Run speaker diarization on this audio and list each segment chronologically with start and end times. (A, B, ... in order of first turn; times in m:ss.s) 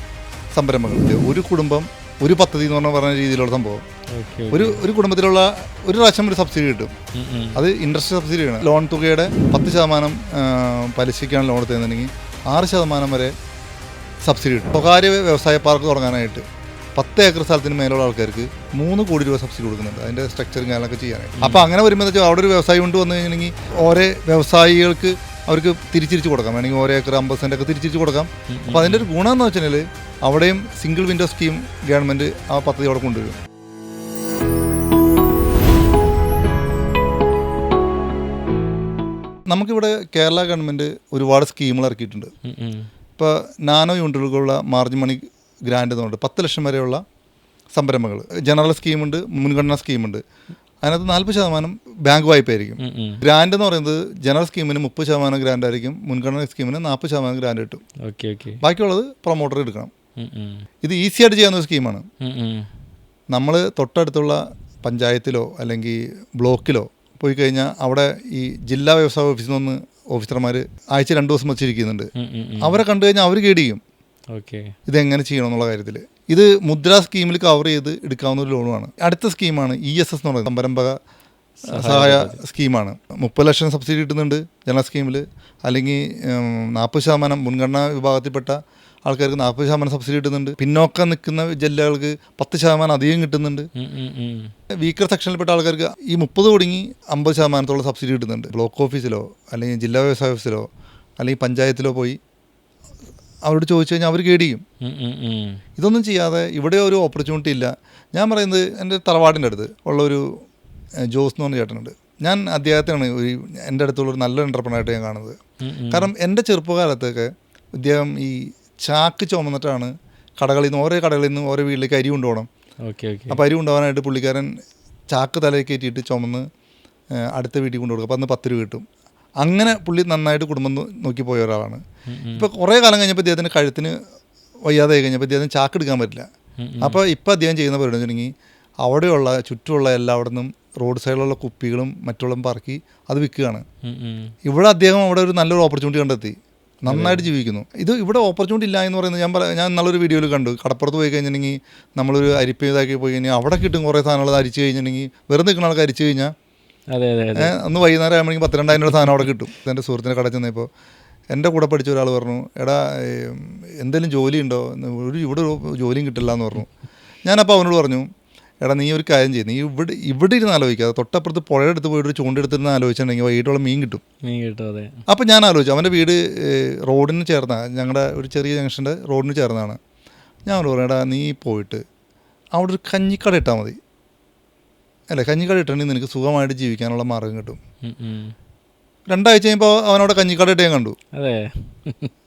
0:00.5-0:03.8 A
0:04.1-0:04.8 B
0:04.5-0:06.9 A
0:07.1-0:07.6 B
0:07.5-0:13.3 A
0:14.2-0:16.4 A
0:17.0-0:33.4 A
0:21.4-0:21.6 B
0:28.5-0:29.1 B
0:39.5-0:42.3 A
0:42.4-0:42.9 B
0:43.2-0:47.0 A
0:47.7-0:50.2 A
0:50.8-0:57.8 A
0:52.8-0:53.2 B
0:58.0-0:58.6 B
0:58.6-0:59.9 A
1:00.2-1:00.6 B
1:00.8-1:02.0 A
1:02.2-1:02.7 B
1:03.3-1:12.1 A
1:12.2-1:12.8 B
1:12.6-1:13.8 A
1:14.3-1:14.7 B
1:14.9-1:20.9 A
1:21.6-1:22.4 B
1:21.7-1:33.7 A
1:33.8-1:34.5 B
1:34.8-1:40.7 A
1:41.2-1:42.2 A
1:43.4-1:44.6 A
1:44.8-1:45.6 B
1:45.8-1:50.2 A
1:51.1-1:55.4 A
1:55.6-1:56.1 B
1:55.9-2:02.5 A
2:02.8-2:03.4 B
2:03.3-2:04.5 A
2:05.1-2:06.4 A
2:07.3-2:08.8 A
2:09.4-2:11.8 A
2:12.1-2:12.5 B
2:12.3-2:13.9 A
2:14.6-2:16.2 A
2:16.6-2:17.0 B
2:16.8-2:18.3 A
2:18.8-2:23.6 A
2:23.8-2:24.3 B
2:24.4-2:36.3 A
2:26.9-2:27.3 B
2:36.9-2:37.5 B
2:37.4-2:40.7 A
2:41.3-2:46.7 A
2:47.2-2:48.0 A
2:48.6-2:54.0 A
2:54.2-2:54.9 B
2:55.1-2:59.8 A
3:00.5-3:01.8 A
3:02.6-3:03.8 A
3:05.1-3:07.6 A
3:07.8-3:08.3 B
3:09.1-3:11.0 A
3:11.2-3:12.1 B